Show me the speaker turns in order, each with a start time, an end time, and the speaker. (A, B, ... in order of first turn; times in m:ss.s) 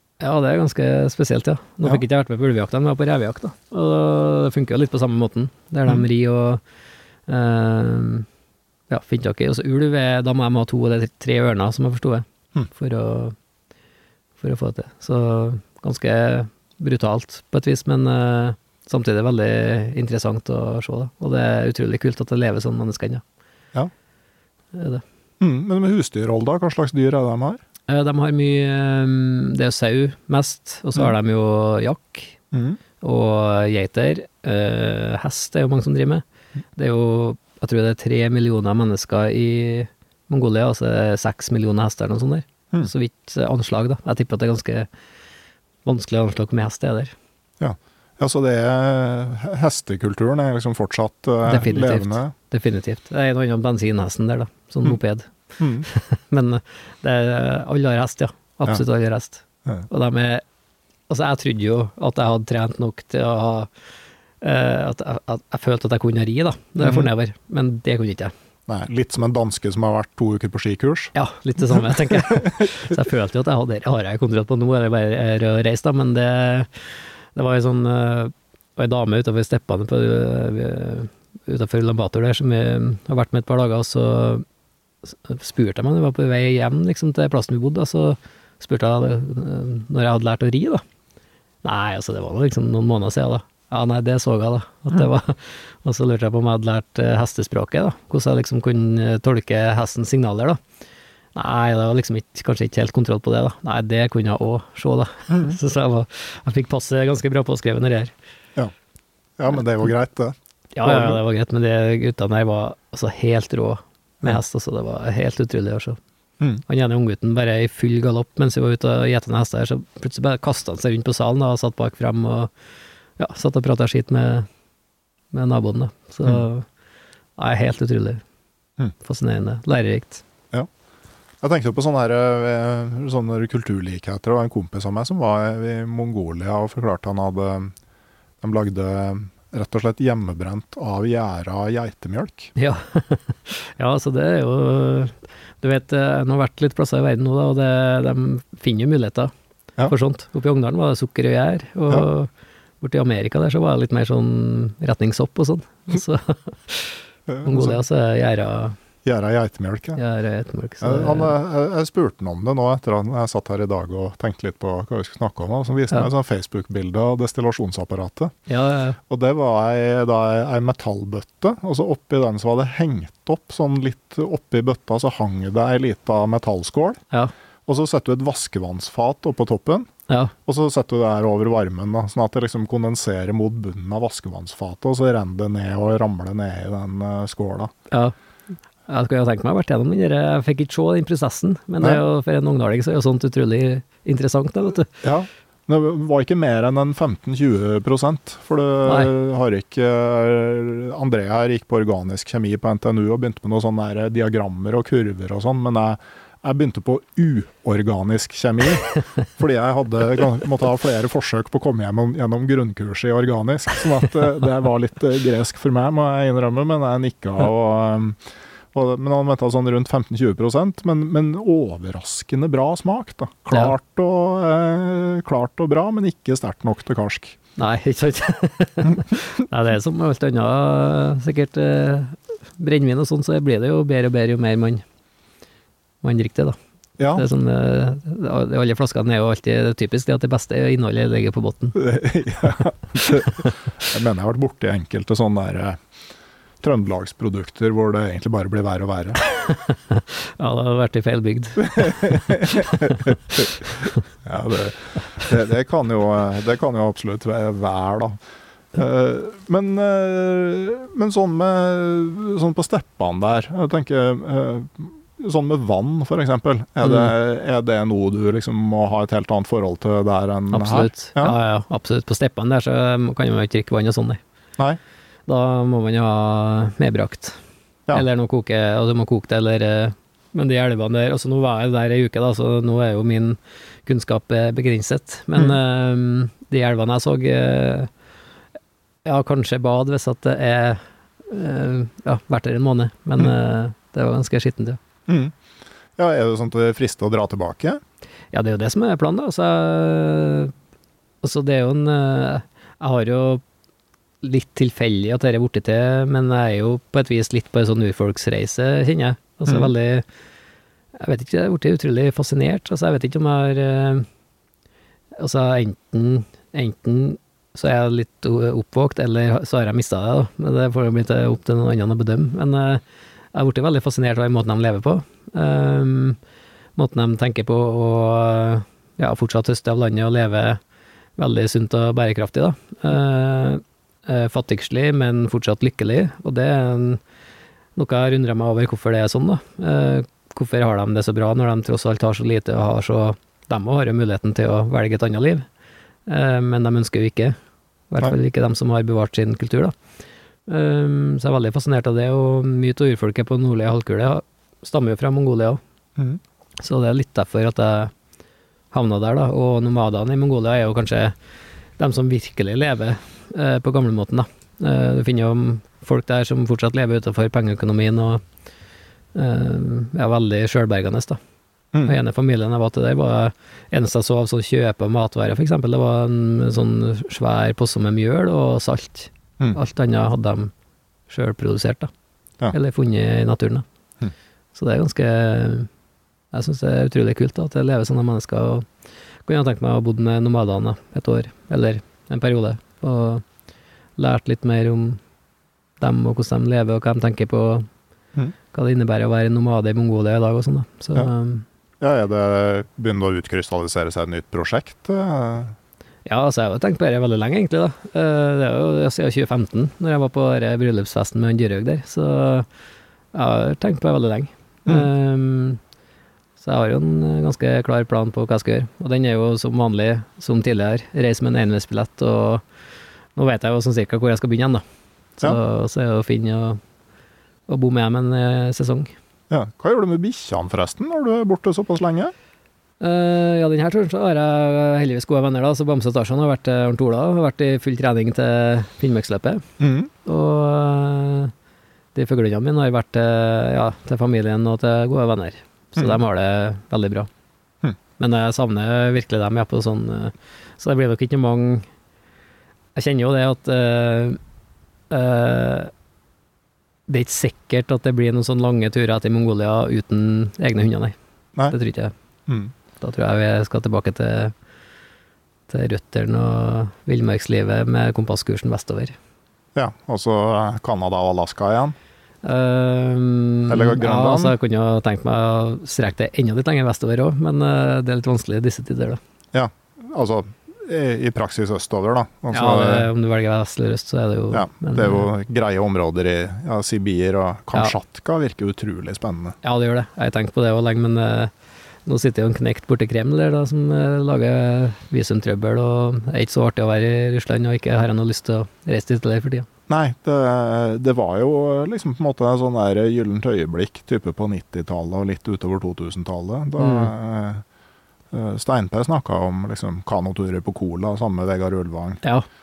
0:00.2-0:06.6 A
0:07.3-0:08.3 A
0:08.9-0:13.4 A
0:14.4-0:23.2 A
0:24.7-0:25.0 A
0:25.4-0:27.6 B
0:27.9-0:32.4 A
0:32.5-0:32.8 B
0:33.0-0:36.2 A
0:36.8-0:44.9 A
0:45.8-0:47.1 A
0:47.6-0:52.3 B
0:51.4-1:00.4 A
0:55.6-0:55.9 B
1:01.1-1:03.7 A
1:04.4-1:08.3 A
1:06.8-1:07.1 B
1:08.7-1:11.1 B
1:11.1-1:24.4 A
1:11.7-1:12.7 B
1:25.0-1:30.8 A
1:31.6-1:40.6 A
1:41.3-1:48.1 A
1:45.3-1:45.6 B
1:49.4-1:51.2 B
1:50.8-1:56.0 A
1:56.6-2:02.5 A
2:03.2-2:04.5 A
2:05.3-2:06.7 A
2:07.4-2:08.2 A
2:09.0-2:10.2 A
2:11.4-2:17.7 B
2:18.4-2:22.5 B
2:22.6-2:29.3 A
2:29.9-2:38.8 A
2:37.3-2:37.8 B
2:39.0-2:40.0 B
2:40.0-2:41.3 A
2:40.8-2:48.3 B
2:48.5-2:49.0 A
2:49.0-2:57.0 B
2:57.7-2:59.9 B
3:00.4-3:07.7 B
3:08.9-3:14.9 A
3:15.0-3:38.2 B
3:18.8-3:19.1 A
3:38.7-3:47.4 B
3:47.6-3:54.8 A
3:56.0-3:56.6 A
3:57.0-3:57.2 B
3:57.1-4:01.8 A
4:01.7-4:05.8 B
4:03.0-4:03.5 A
4:06.6-4:09.2 B
4:09.3-4:13.6 A
4:11.6-4:13.6 B
4:14.2-4:18.2 B
4:18.7-4:31.4 B
4:26.8-4:27.1 A
4:30.5-4:34.2 A
4:35.3-4:37.4 A
4:37.9-4:47.9 A
4:49.0-4:54.8 A
4:55.1-4:55.3 B
4:56.0-4:57.8 B
4:58.3-5:00.5 A
5:01.2-5:03.4 A
5:04.2-5:10.0 A
5:11.0-5:14.1 A
5:15.2-5:22.8 A
5:23.3-5:26.2 A
5:26.8-5:30.6 A
5:31.2-5:37.0 A
5:37.8-5:45.4 A
5:46.1-5:47.4 A
5:47.9-5:49.7 A
5:50.5-5:55.6 A
5:56.6-5:57.9 A
5:58.7-6:01.1 A
6:01.8-6:08.2 A
6:09.1-6:11.2 A
6:11.8-6:20.5 A
6:21.1-6:21.9 A
6:22.5-6:23.6 A
6:24.5-6:25.7 A
6:26.3-6:28.7 A
6:29.2-6:33.2 A
6:34.0-6:35.0 A
6:35.8-6:37.7 A
6:38.5-6:41.4 A
6:41.8-6:45.6 B
6:46.0-6:52.5 A
6:53.1-6:55.6 A
6:56.4-7:02.4 A
7:03.2-7:04.6 A
7:05.2-7:06.6 A
7:07.5-7:08.9 A
7:09.3-7:12.1 B
7:12.8-7:19.4 A
7:19.6-7:19.9 B
7:20.0-7:21.3 A
7:21.9-7:27.1 A
7:28.0-7:31.6 A
7:32.8-7:34.2 A
7:34.9-7:35.7 A
7:36.9-7:41.0 A
7:41.5-7:41.9 A
7:42.3-7:42.5 B
7:42.8-7:44.3 A
7:45.5-7:49.0 A
7:49.5-7:51.7 B
7:52.2-7:59.0 A
7:53.5-7:54.4 B
7:59.3-8:02.9 B
8:02.3-8:05.1 A
8:04.3-8:09.4 B
8:09.4-8:11.3 A
8:11.8-8:19.5 A
8:19.7-8:27.4 B
8:26.6-8:26.9 A
8:28.1-8:32.0 B